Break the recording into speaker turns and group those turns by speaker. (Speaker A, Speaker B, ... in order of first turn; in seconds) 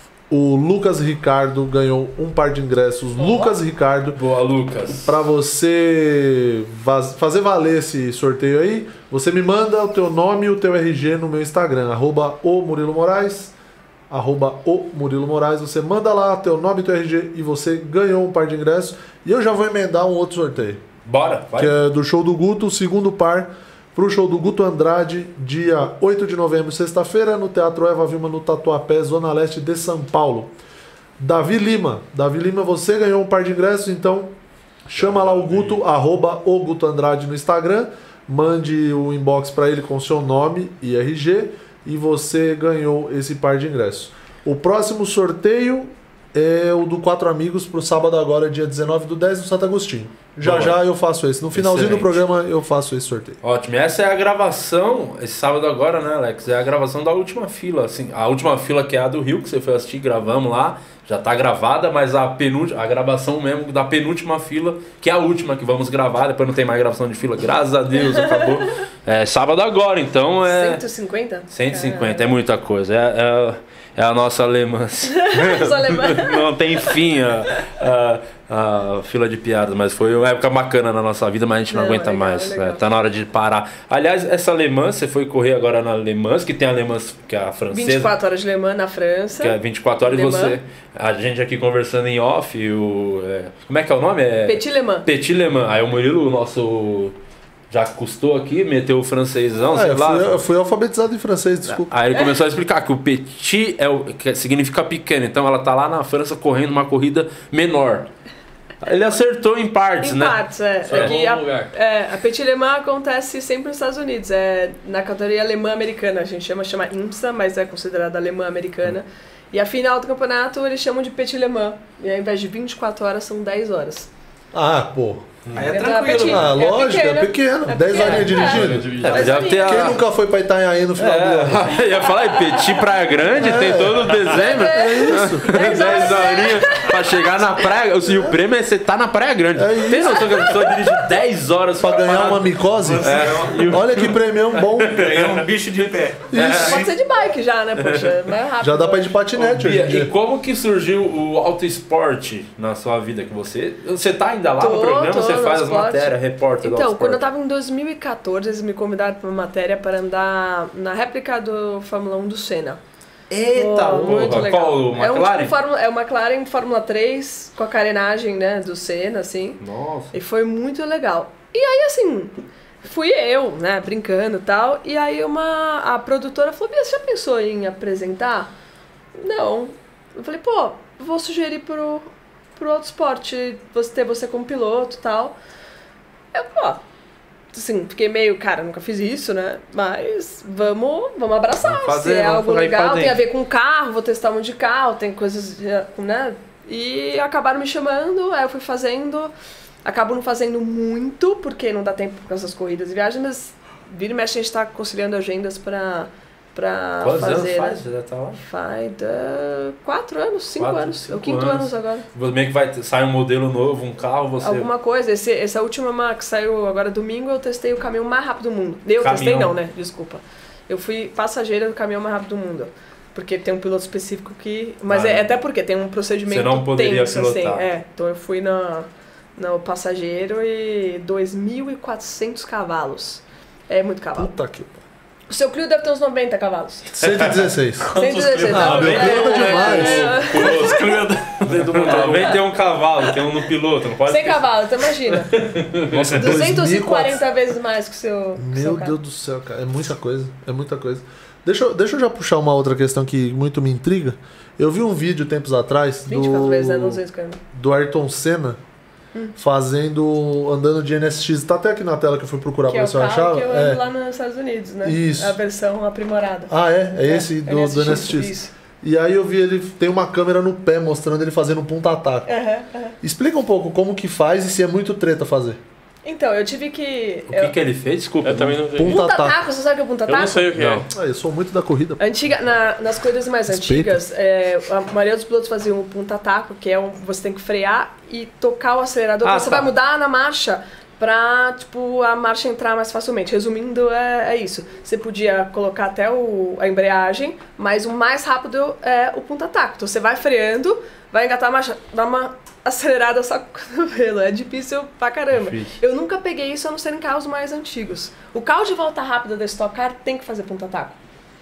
Speaker A: 0.3-4.2, 5.0-13.5, 14.1-20.8, 21.6-30.5, 31.2-34.3, 35.0-53.4, 99.7-101.9, 124.5-125.5, 126.1-131.8, 133.3-135.6, 139.6-140.5, 141.8-145.0, 146.3-146.8, 148.6-150.1, 234.2-234.8, 236.9-237.9, 238.4-240.1, 245.9-247.2, 248.4-257.0, 257.5-258.6, 259.4-263.8, 264.8-265.4, 266.5-272.3, 273.0-275.6, 278.8-279.4, 280.9-282.0, 283.5-284.0
Speaker B: 4.2-5.1, 21.1-21.8, 34.9-35.8, 50.4-50.8, 51.5-52.2, 53.4-70.8, 71.5-88.1, 89.4-97.2, 97.7-100.4, 101.9-108.1, 108.8-111.7, 125.5-126.5, 128.0-130.0, 131.0-145.5, 146.3-146.8, 147.8-148.3, 149.3-157.2, 163.3-165.5, 169.6-170.1, 191.6-193.2, 207.0-208.4, 210.6-214.7, 219.0-219.5, 224.9-225.3, 226.3-227.7, 237.0-237.5, 238.8-244.5, 245.3-246.4, 277.3-278.7, 280.6-280.9, 289.2-289.7, 305.3-305.7
Speaker C: 68.1-68.7, 70.5-72.3, 75.1-76.5, 81.7-82.8, 87.7-90.6, 94.5-95.1, 110.0-124.1, 125.7-130.0, 132.2-132.8, 134.3-137.1, 146.5-149.2, 154.6-162.8, 163.5-169.6, 170.1-178.5, 179.2-185.4, 186.3-186.8, 187.5-199.3, 199.8-207.8, 208.4-212.1, 214.4-234.3, 235.3-236.9, 237.9-240.7, 244.1-245.3, 246.1-248.9, 256.1-257.4, 262.7-268.5, 272.3-272.9, 276.1-277.5, 278.9-280.5, 282.0-311.0
Speaker D: 110.9-111.7, 128.0-129.3, 237.8-242.4, 278.2-279.0, 280.1-280.9
Speaker E: 125.5-126.5, 142.9-143.6, 144.9-146.9